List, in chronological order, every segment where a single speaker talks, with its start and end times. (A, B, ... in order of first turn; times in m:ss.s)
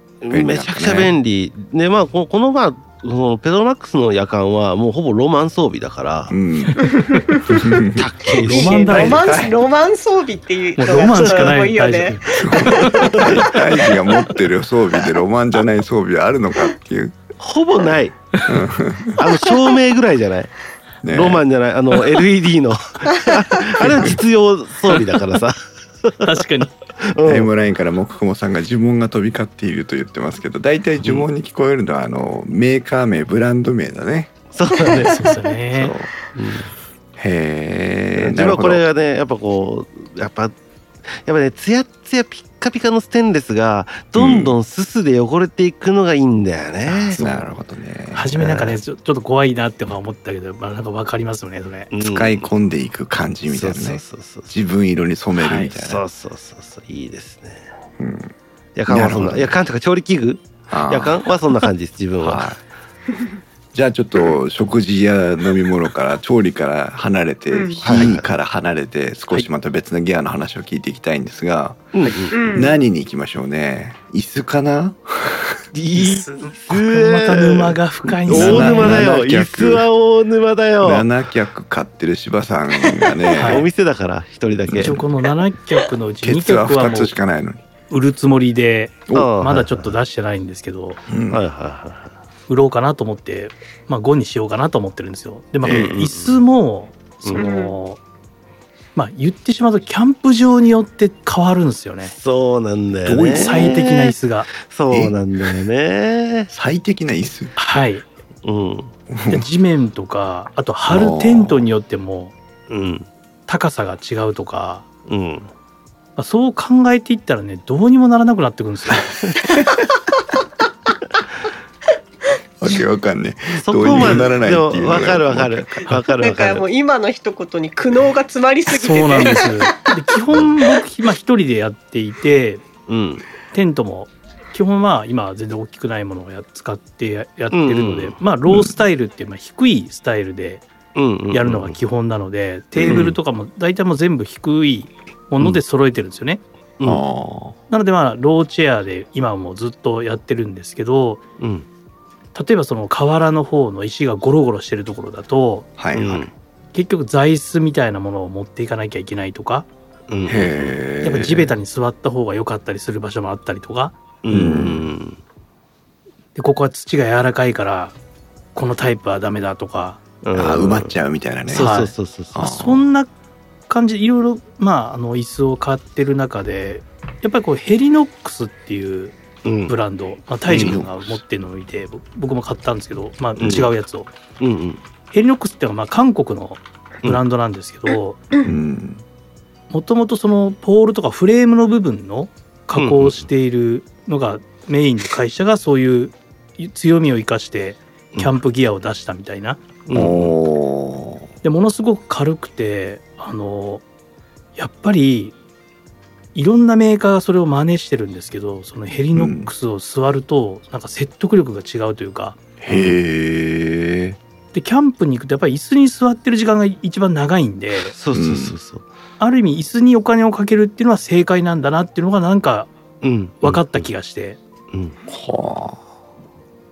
0:00.2-0:06.4 A
0:00.3-0:01.1 B
0:06.3-0:08.1 B
0:06.6-0:07.2 C
0:06.9-0:07.4 D
0:07.9-0:09.4 A
0:08.4-0:09.2 C
0:08.4-0:14.2 D
0:08.9-0:09.6 B
0:10.8-0:13.4 C
0:12.4-0:17.2 B
0:17.4-0:18.2 A
0:18.5-0:19.2 B
0:19.2-0:20.5 A
0:21.0-0:21.4 B
0:21.1-0:26.4 A
0:23.8-0:24.2 B
0:26.2-0:26.7 C
0:27.0-0:27.5 A
0:27.2-0:34.3 B
0:31.0-0:31.3 A
0:34.5-0:35.3 A
0:34.9-0:36.0 C
0:35.7-0:36.1 B
0:36.3-0:36.7 A
0:37.2-0:38.8 B
0:38.2-0:40.5 A
0:41.1-0:47.3 A
0:44.2-0:44.6 B
0:46.9-0:47.4 C
0:47.1-0:48.6 B
0:48.1-0:51.9 C
0:48.4-0:48.8 A
0:51.9-0:52.5 A
0:52.0-0:56.0 B
0:53.5-0:54.5 A
0:55.4-0:57.7 A
0:58.0-0:58.3 B
0:58.8-1:02.5 A
0:58.9-0:59.6 B
1:00.7-1:01.2 B
1:02.2-1:02.6 B
1:03.7-1:11.9 B
1:07.5-1:08.1 D
1:07.8-1:08.3 A
1:11.9-1:12.6 A
1:12.3-1:12.7 D
1:12.5-1:15.6 B
1:15.7-1:21.1 A
1:16.0-1:19.2 C
1:18.2-1:19.9 B
1:20.8-1:23.7 B
1:23.3-1:23.7 C
1:23.4-1:25.0 A
1:24.7-1:25.0 B
1:24.8-1:27.1 C
1:26.2-1:27.6 B
1:27.9-1:31.0 C
1:29.1-1:29.6 B
1:29.1-1:29.9 A
1:31.1-1:31.4 B
1:31.3-1:32.1 A
1:32.5-1:38.0 C
1:35.6-1:36.1 B
1:35.7-1:36.4 A
1:37.4-1:37.8 D
1:39.0-1:42.1 C
1:42.1-1:46.5 A
1:43.0-1:43.9 B
1:43.3-1:44.5 C
1:44.9-1:45.5 B
1:46.5-1:47.5 B
1:47.6-1:48.0 C
1:48.4-1:48.9 A
1:49.1-1:49.4 B
1:49.3-1:52.3 C
1:50.9-1:51.6 B
1:52.7-1:53.1 A
1:53.5-1:54.9 C
1:55.1-1:55.5 A
1:56.2-1:59.1 C
2:02.6-2:06.0 B
2:03.6-2:06.7 A
2:06.2-2:09.9 D
2:08.7-2:12.6 C
2:12.9-2:13.2 A
2:13.5-2:20.6 C
2:17.5-2:18.2 A
2:18.5-2:18.8 B
2:21.0-2:21.8 A
2:21.3-2:26.4 C
2:22.8-2:23.2 B
2:22.9-2:23.2 A
2:26.8-2:27.6 B
2:27.7-2:31.2 C
2:31.4-2:31.7 A
2:32.4-2:35.7 C
2:35.8-2:36.3 B
2:35.9-2:36.3 A
2:36.7-2:39.7 C
2:40.1-2:40.8 A
2:40.3-2:41.5 B
2:41.0-2:44.0 C
2:44.2-2:45.2 A
2:44.3-2:44.9 B
2:46.4-2:47.9 C
2:48.6-2:50.0 C
2:50.2-2:51.0 A
2:50.3-2:52.8 B
2:51.5-2:52.4 A
2:51.5-2:53.1 C
2:53.7-3:04.1 C
2:59.4-2:59.7 A
3:00.5-3:01.2 B
3:00.5-3:00.8 A
3:03.4-3:03.6 B
3:03.4-3:03.7 A
3:04.4-3:04.8 A
3:05.1-3:08.2 C
3:08.4-3:09.0 B
3:09.7-3:19.6 C
3:12.8-3:13.3 A
3:19.9-3:20.4 A
3:19.9-3:21.3 B
3:21.4-3:23.8 C
3:24.6-3:25.4 C
3:26.4-3:32.4 C
3:29.2-3:29.5 B
3:32.6-3:34.2 B
3:34.5-3:37.9 C
3:37.9-3:38.8 A
3:38.1-3:38.6 B
3:39.2-3:42.7 C
3:43.0-3:43.9 A
3:43.4-3:44.4 C
3:45.1-3:45.8 B